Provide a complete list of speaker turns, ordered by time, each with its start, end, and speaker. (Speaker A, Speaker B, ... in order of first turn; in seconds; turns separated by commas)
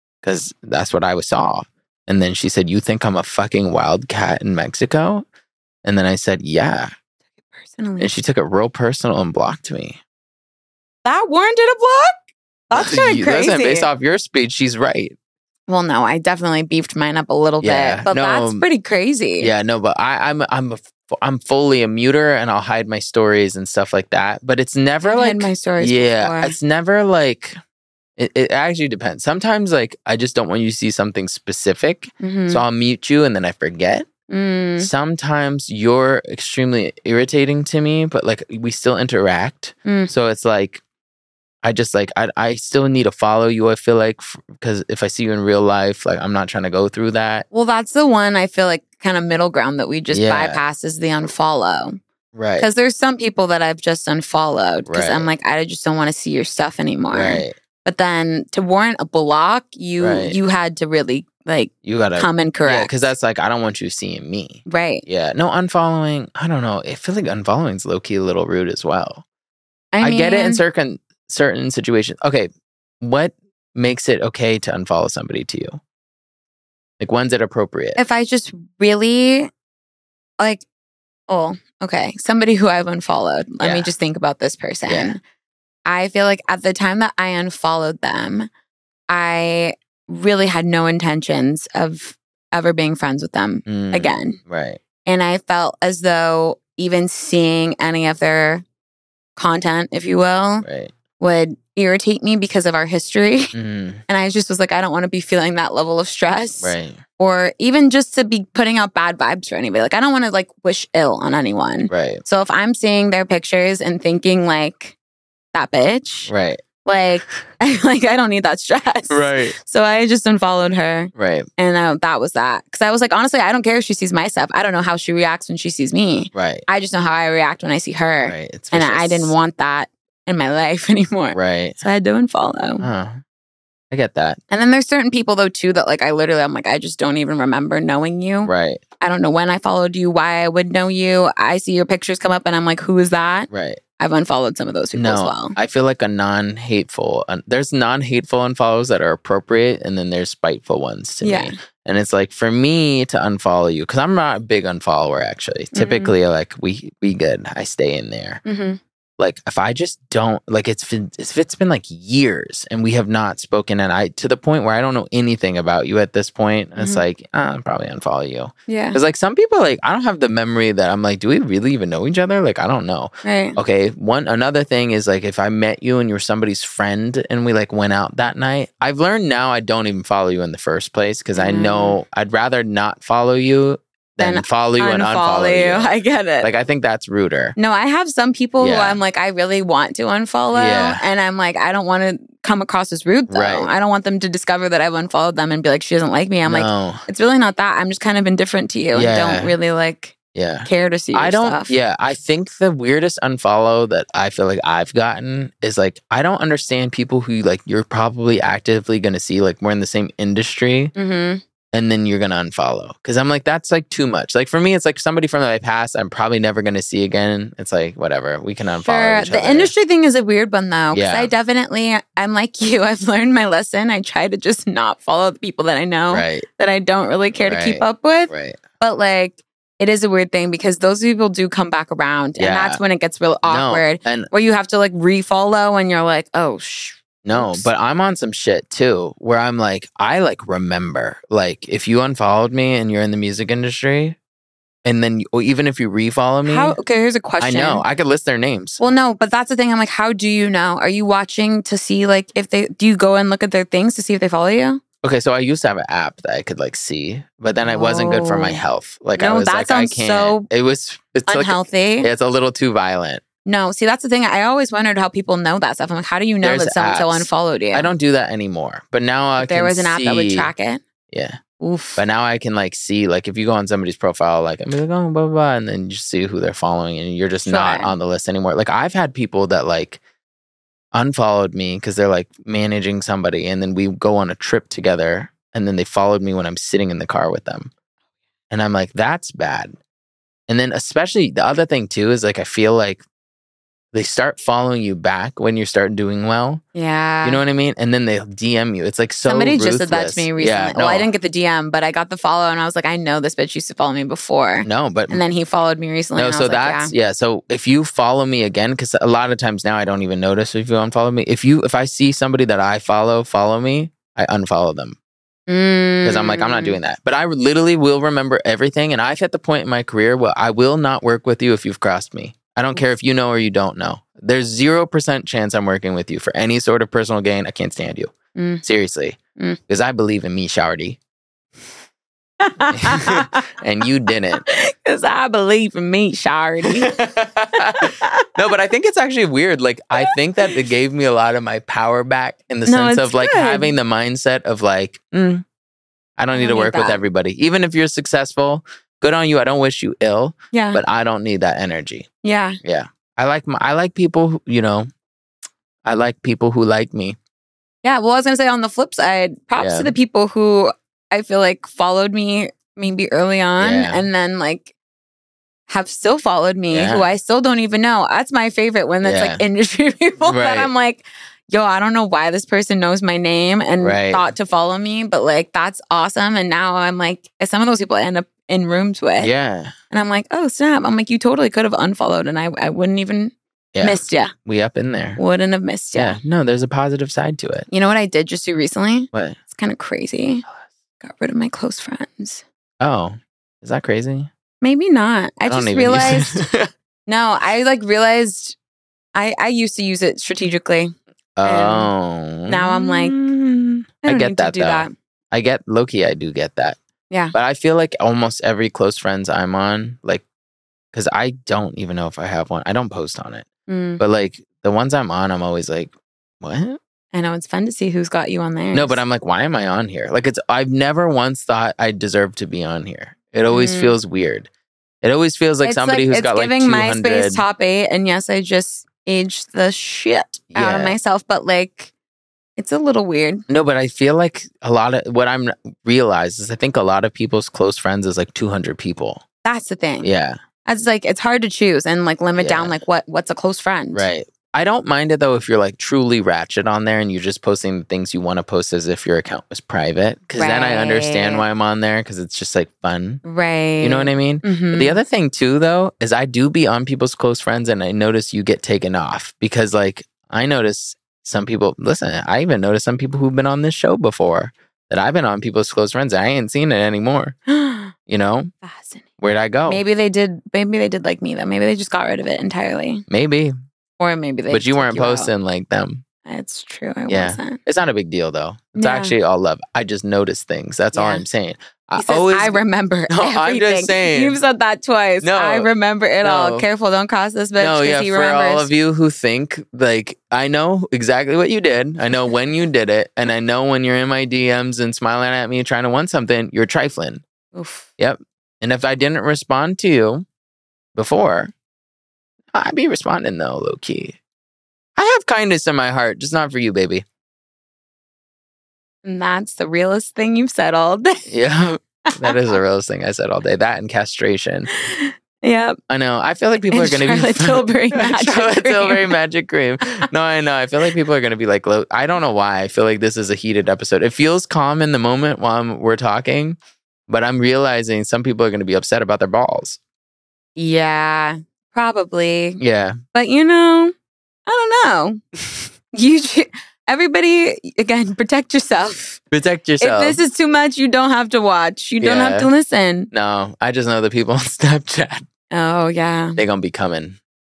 Speaker A: 0.2-5.2, Speaker A: 5.8-6.9, Speaker B: 7.6-8.1, Speaker A: 8.0-10.0, Speaker B: 11.0-12.2, Speaker B: 12.7-13.9, Speaker A: 12.7-15.1, Speaker B: 15.7-19.5, Speaker A: 17.6-18.6, Speaker A: 19.4-27.6, Speaker B: 25.0-26.6, Speaker A: 28.2-34.1, Speaker B: 32.2-32.6, Speaker B: 34.3-34.9, Speaker A: 34.8-40.8, Speaker B: 39.8-40.1, Speaker A: 41.6-47.4, Speaker B: 47.5-52.0, Speaker A: 50.1-50.6, Speaker A: 52.3-52.7, Speaker B: 52.6-63.0, Speaker A: 54.9-55.3, Speaker A: 57.1-57.5, Speaker A: 60.0-60.4, Speaker A: 61.8-69.2, Speaker B: 64.7-65.0, Speaker B: 69.9-70.6, Speaker A: 70.0-72.5, Speaker A: 73.0-75.8, Speaker A: 77.0-78.0, Speaker B: 78.0-79.5, Speaker B: 80.4-80.6, Speaker B: 81.3-85.2, Speaker A: 83.6-83.9, Speaker A: 84.9-85.2, Speaker B: 85.8-88.5, Speaker B: 89.1-94.4, Speaker A: 93.7-94.8, Speaker B: 95.0-98.6, Speaker B: 99.3-100.7, Speaker A: 100.6-100.9, Speaker B: 101.2-103.5, Speaker A: 103.5-104.0, Speaker B: 104.1-115.0, Speaker A: 106.6-107.0, Speaker A: 111.9-112.2, Speaker B: 115.5-116.3, Speaker A: 116.3-116.6, Speaker B: 116.8-132.8, Speaker A: 119.1-119.5, Speaker A: 121.1-121.5, Speaker A: 126.3-126.6, Speaker A: 128.2-129.3, Speaker A: 131.3-131.8, Speaker A: 132.8-133.2, Speaker A: 133.9-134.4, Speaker B: 134.5-145.6, Speaker A: 138.4-138.8, Speaker A: 143.5-143.8, Speaker A: 144.9-158.4, Speaker B: 151.2-151.6, Speaker B: 155.7-156.2, Speaker B: 158.4-158.8, Speaker A: 159.2-187.6, Speaker B: 166.8-167.0, Speaker B: 168.7-169.0, Speaker B: 173.2-173.6, Speaker B: 181.3-182.0, Speaker B: 184.2-186.5, Speaker B: 187.6-201.7, Speaker A: 188.6-189.0, Speaker A: 190.5-191.0, Speaker A: 193.3-193.7, Speaker A: 196.4-197.1, Speaker A: 198.9-199.6, Speaker A: 200.3-210.9, Speaker B: 210.9-211.4, Speaker A: 211.7-219.7, Speaker B: 218.8-237.7, Speaker A: 220.9-221.3, Speaker A: 226.1-226.4, Speaker A: 227.4-228.6, Speaker A: 232.4-232.8, Speaker A: 233.4-234.3, Speaker A: 237.2-244.2, Speaker A: 244.8-246.8, Speaker B: 246.4-247.8, Speaker A: 247.4-248.8, Speaker B: 248.8-254.8, Speaker A: 255.0-263.2, Speaker B: 257.6-258.6, Speaker B: 259.2-260.5, Speaker B: 261.3-262.1, Speaker B: 263.4-267.9, Speaker A: 266.4-270.5, Speaker B: 269.4-270.8, Speaker A: 271.1-271.4, Speaker B: 271.6-272.0, Speaker A: 271.9-280.0, Speaker B: 277.4-277.9, Speaker A: 280.9-287.7, Speaker A: 288.5-289.8, Speaker A: 290.5-293.0, Speaker A: 293.9-296.6, Speaker B: 296.7-297.4, Speaker A: 297.2-301.1, Speaker B: 299.3-306.9, Speaker A: 304.6-305.2, Speaker A: 306.1-315.0, Speaker B: 315.5-316.8, Speaker A: 316.0-331.0, Speaker B: 328.3-328.6, Speaker B: 332.4-333.4, Speaker A: 332.7-334.4, Speaker B: 334.4-336.9, Speaker A: 336.6-345.4, Speaker B: 337.8-338.3, Speaker B: 340.0-340.5, Speaker B: 342.6-343.7, Speaker A: 346.2-352.1, Speaker B: 346.3-347.0, Speaker B: 350.5-350.8, Speaker B: 352.2-352.6, Speaker A: 352.6-354.9, Speaker A: 355.8-357.2, Speaker B: 357.8-364.7, Speaker A: 359.6-359.9, Speaker A: 363.6-364.1, Speaker B: 365.7-379.3, Speaker A: 366.7-367.1, Speaker A: 369.0-369.4, Speaker A: 370.2-370.7, Speaker A: 373.8-374.3, Speaker A: 379.2-379.7, Speaker B: 379.9-384.3, Speaker A: 383.7-385.2, Speaker B: 385.2-386.2, Speaker A: 385.9-387.7, Speaker B: 387.7-390.4, Speaker A: 389.1-389.4, Speaker B: 391.0-392.4, Speaker A: 392.8-394.3, Speaker B: 394.6-396.4, Speaker A: 395.5-396.7, Speaker B: 397.1-398.6, Speaker B: 399.1-400.9, Speaker A: 401.4-406.8, Speaker B: 401.4-401.9, Speaker B: 402.5-403.2, Speaker B: 404.0-404.9, Speaker A: 407.3-410.2, Speaker A: 410.9-413.4, Speaker B: 413.7-414.0, Speaker A: 414.0-416.8, Speaker B: 417.1-419.0, Speaker A: 418.7-424.5, Speaker B: 423.5-424.0, Speaker A: 425.0-427.4, Speaker B: 425.6-431.9, Speaker A: 430.5-430.9, Speaker B: 432.6-433.4, Speaker A: 433.5-439.2, Speaker B: 439.4-440.1, Speaker A: 440.0-440.4, Speaker B: 440.6-444.1, Speaker A: 442.4-442.8, Speaker A: 443.9-453.2, Speaker B: 450.4-451.4, Speaker B: 453.2-455.0, Speaker A: 453.8-467.4, Speaker B: 467.5-467.9, Speaker A: 468.1-468.5, Speaker B: 468.6-469.1, Speaker A: 469.2-469.8, Speaker B: 469.6-473.0, Speaker A: 473.1-473.5, Speaker B: 474.0-475.3, Speaker A: 474.5-476.0, Speaker B: 476.2-477.6, Speaker A: 477.1-484.4, Speaker B: 478.8-479.1, Speaker B: 480.9-481.2, Speaker B: 482.0-488.7, Speaker A: 485.2-485.7, Speaker A: 486.2-486.6, Speaker A: 487.6-497.2, Speaker B: 497.5-497.9, Speaker A: 498.0-500.2, Speaker A: 500.9-501.5, Speaker A: 502.5-504.2, Speaker A: 505.0-507.0, Speaker B: 509.0-511.3, Speaker A: 511.3-514.7, Speaker B: 512.1-512.4, Speaker B: 514.7-515.8, Speaker A: 515.9-526.6, Speaker B: 516.7-519.2, Speaker A: 527.1-529.8, Speaker B: 530.5-532.6, Speaker A: 532.6-533.0, Speaker B: 533.1-533.9, Speaker B: 534.5-535.2, Speaker B: 535.9-539.2, Speaker A: 539.3-540.2, Speaker B: 539.8-543.1, Speaker A: 542.0-542.5, Speaker A: 543.1-545.2, Speaker B: 545.5-546.4, Speaker A: 546.4-547.2